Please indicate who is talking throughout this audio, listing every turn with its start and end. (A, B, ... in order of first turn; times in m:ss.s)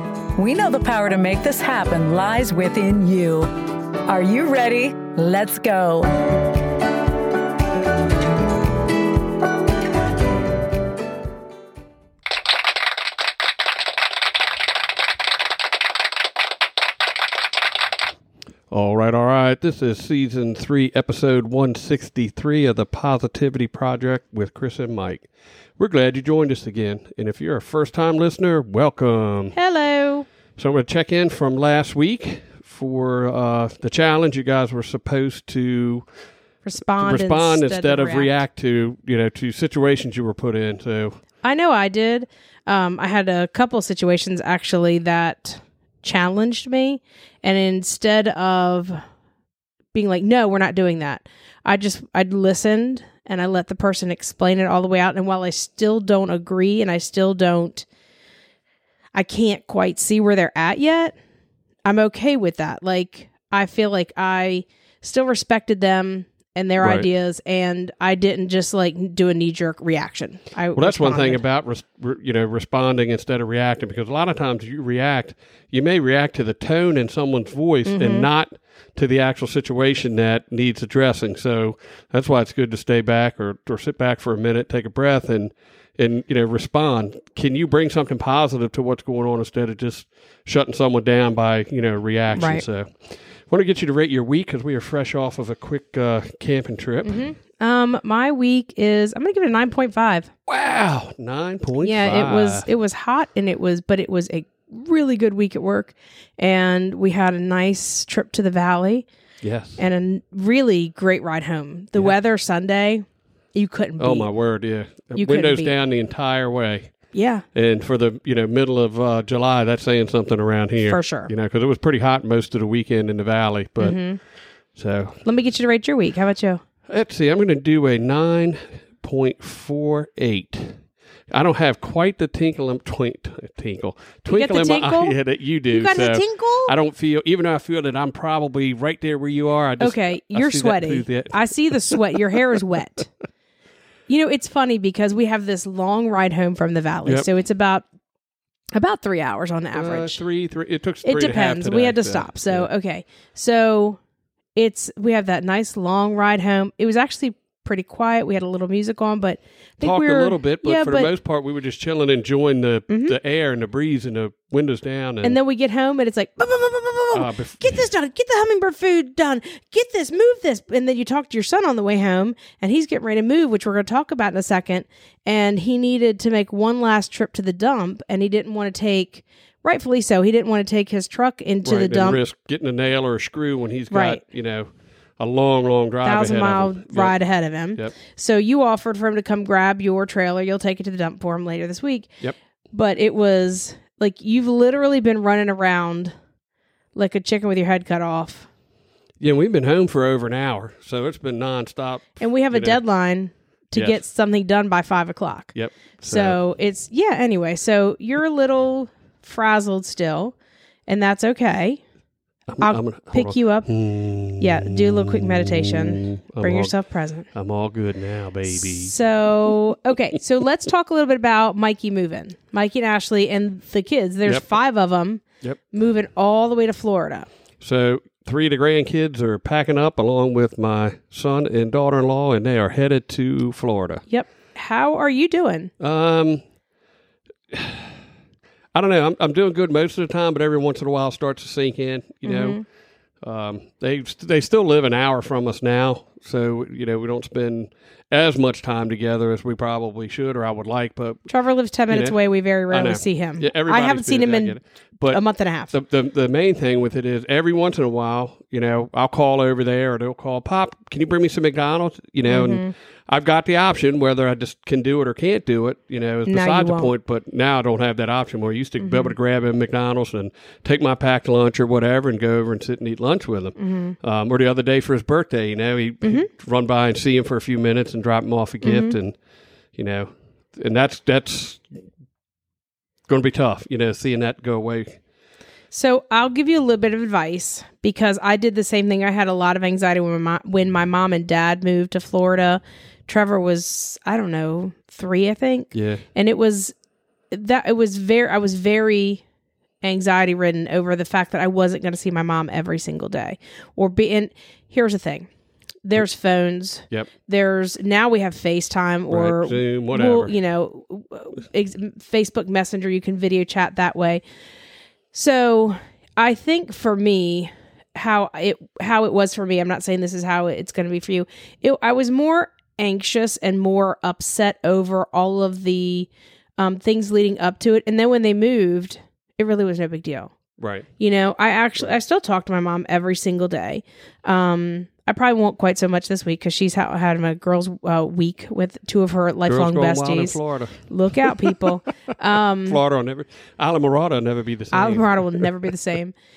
0:00.4-0:03.5 A
0:04.1-0:06.3 A
0:18.7-0:29.5 B
0:29.5-0:30.3 C
0:30.6-0:36.1 B
0:36.6-0:38.3 C
0:37.0-0:41.2 B
0:41.4-0:49.0 C
0:49.9-0:57.8 C
0:59.1-1:01.1 C
1:01.8-1:11.4 C
1:06.8-1:07.1 B
1:10.7-1:37.2 B
1:17.8-1:18.3 C
1:32.3-1:32.6 C
1:37.0-1:40.3 C
1:40.5-1:42.7 B
1:41.8-1:49.1 C
1:49.4-1:49.8 B
1:49.8-1:54.3 C
1:54.0-1:57.0 B
1:55.1-1:55.7 C
1:57.1-1:57.4 C
1:57.5-2:04.0 B
2:00.9-2:01.3 C
2:03.8-2:04.2 C
2:04.7-2:05.2 B
2:05.2-2:06.6 C
2:06.9-2:22.2 B
2:14.3-2:15.2 C
2:15.7-2:16.7 C
2:19.8-2:23.1 C
2:24.1-2:27.9 C
2:28.7-2:30.2 C
2:29.7-2:32.7 B
2:31.0-2:34.0 C
2:34.6-2:41.1 C
2:39.8-2:45.4 B
2:42.9-2:43.1 C
2:45.2-3:02.2 C
2:47.1-2:47.8 B
3:01.6-3:07.1 B
3:03.9-3:04.2 C
3:06.0-3:12.1 C
3:12.7-3:16.1 C
3:16.9-3:18.5 C
3:19.2-3:22.8 B
3:22.2-3:30.3 C
3:23.7-3:24.0 B
3:25.5-3:26.4 B
3:30.9-3:31.8 C
3:32.5-3:36.7 B
3:32.6-3:33.7 C
3:34.3-3:37.3 C
3:37.3-3:39.0 B
3:38.5-3:47.3 C
3:47.6-3:54.0 B
3:54.1-3:55.7 C
3:55.8-3:56.4 B
3:57.5-3:58.0 B
3:58.7-4:02.6 B
4:02.2-4:02.6 C
4:03.2-4:11.3 B
4:11.3-4:15.7 C
4:11.9-4:12.2 B
4:12.7-4:39.2 B
4:22.2-4:22.7 C
4:26.2-4:26.9 C
4:28.8-4:29.1 C
4:33.6-4:33.9 C
4:36.0-4:36.3 C
4:38.6-4:39.0 C
4:39.7-4:41.8 B
4:43.1-4:45.0 B
4:45.7-4:56.7 C
4:55.7-4:56.0 B
4:57.3-4:59.2 C
4:59.8-5:05.3 C
5:05.8-5:14.2 C
5:09.1-5:10.3 B
5:15.1-5:30.3 C
5:30.6-5:30.9 B
5:31.0-5:42.8 C
5:39.5-5:41.7 B
5:42.7-5:45.5 B
5:44.7-5:46.1 C